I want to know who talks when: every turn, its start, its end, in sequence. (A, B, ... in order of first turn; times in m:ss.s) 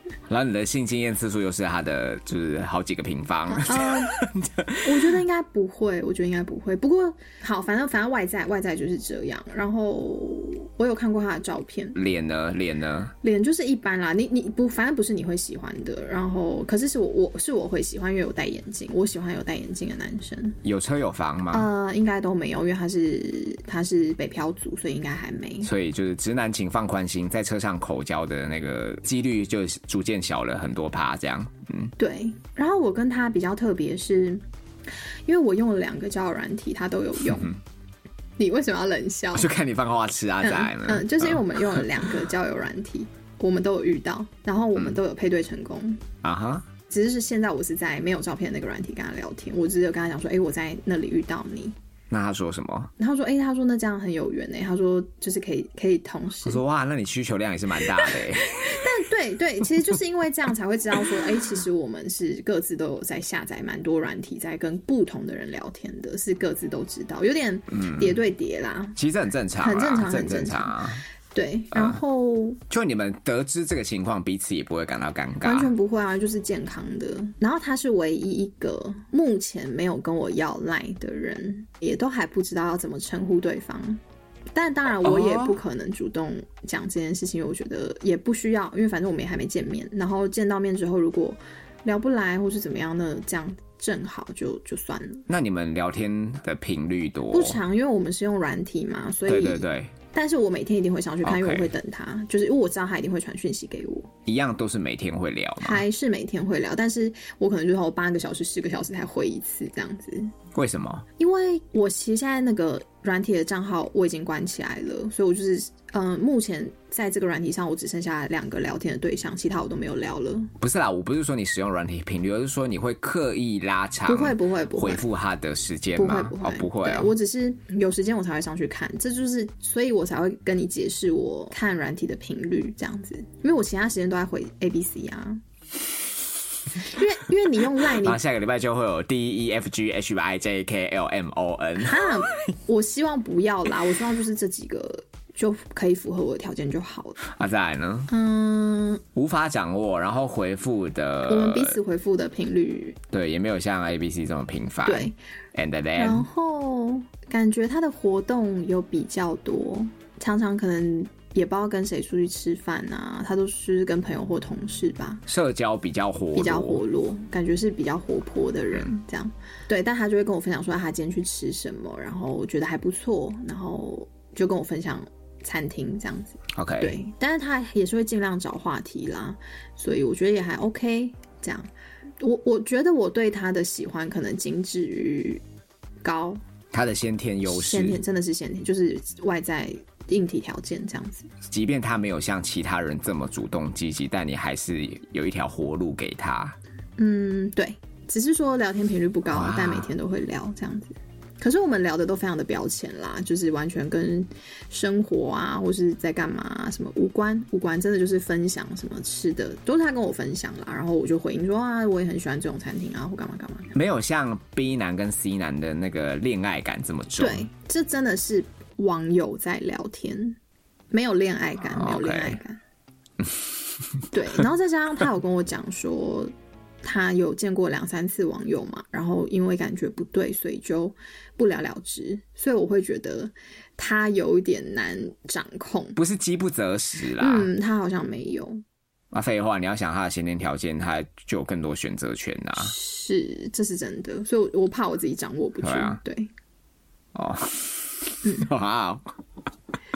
0:00.3-0:05.2 A
0:03.5-0:04.2 B
0:04.8-0:12.0 B
0:12.0-0:13.1 A
0:13.2-0:20.6 B
0:20.6-0:21.7 A
0:21.5-0:25.7 B
0:25.6-0:31.9 A
0:32.0-0:34.4 B
0:35.3-0:37.6 B
0:37.3-0:37.6 A
0:38.4-0:39.5 B
0:39.3-0:42.1 A
0:40.4-0:46.0 B
0:46.2-0:46.7 A
0:46.9-0:51.8 B
0:52.1-0:52.9 A
0:53.0-0:56.6 B
0:56.4-0:58.9 A
0:58.1-1:09.0 B
1:07.7-1:08.2 A
1:09.0-1:11.0 A
1:09.6-1:12.6 B
1:11.7-1:12.0 A
1:12.7-1:15.7 A
1:15.4-1:24.0 B
1:24.5-1:35.3 B
1:25.0-1:25.6 A
1:35.3-1:37.6 A
1:37.3-1:44.1 B
1:39.3-1:39.9 A
1:41.2-1:41.7 A
1:44.3-1:45.8 A
1:45.6-1:50.3 B
1:50.5-1:51.0 A
1:51.2-2:00.5 B
2:00.6-2:07.2 A
2:04.1-2:05.0 B
2:06.0-2:15.4 B
2:16.8-2:18.2 B
2:18.0-2:22.1 A
2:21.8-2:27.2 B
2:27.2-2:28.1 A
2:28.1-2:29.0 B
2:29.2-2:31.8 A
2:31.3-2:33.0 B
2:33.1-2:36.3 A
2:34.8-2:35.2 B
2:36.0-2:45.2 B
2:45.3-2:46.8 A
2:46.4-3:01.7 B
2:56.5-2:57.0 A
3:02.2-3:05.4 B
3:06.0-3:06.4 B
3:06.7-3:08.0 A
3:07.5-3:11.3 B
3:11.5-3:16.6 A
3:17.0-3:33.8 B
3:19.3-3:19.9 A
3:33.7-3:37.5 A
3:37.2-3:40.4 B
3:40.9-3:42.6 B
3:41.6-3:42.4 A
3:44.1-3:46.3 B
3:46.8-3:56.0 B
3:56.0-3:57.5 A
3:57.2-3:58.6 B
3:59.1-4:02.8 A
4:02.6-4:06.3 B
4:05.6-4:06.0 A
4:07.1-4:09.1 A
4:08.2-4:08.5 B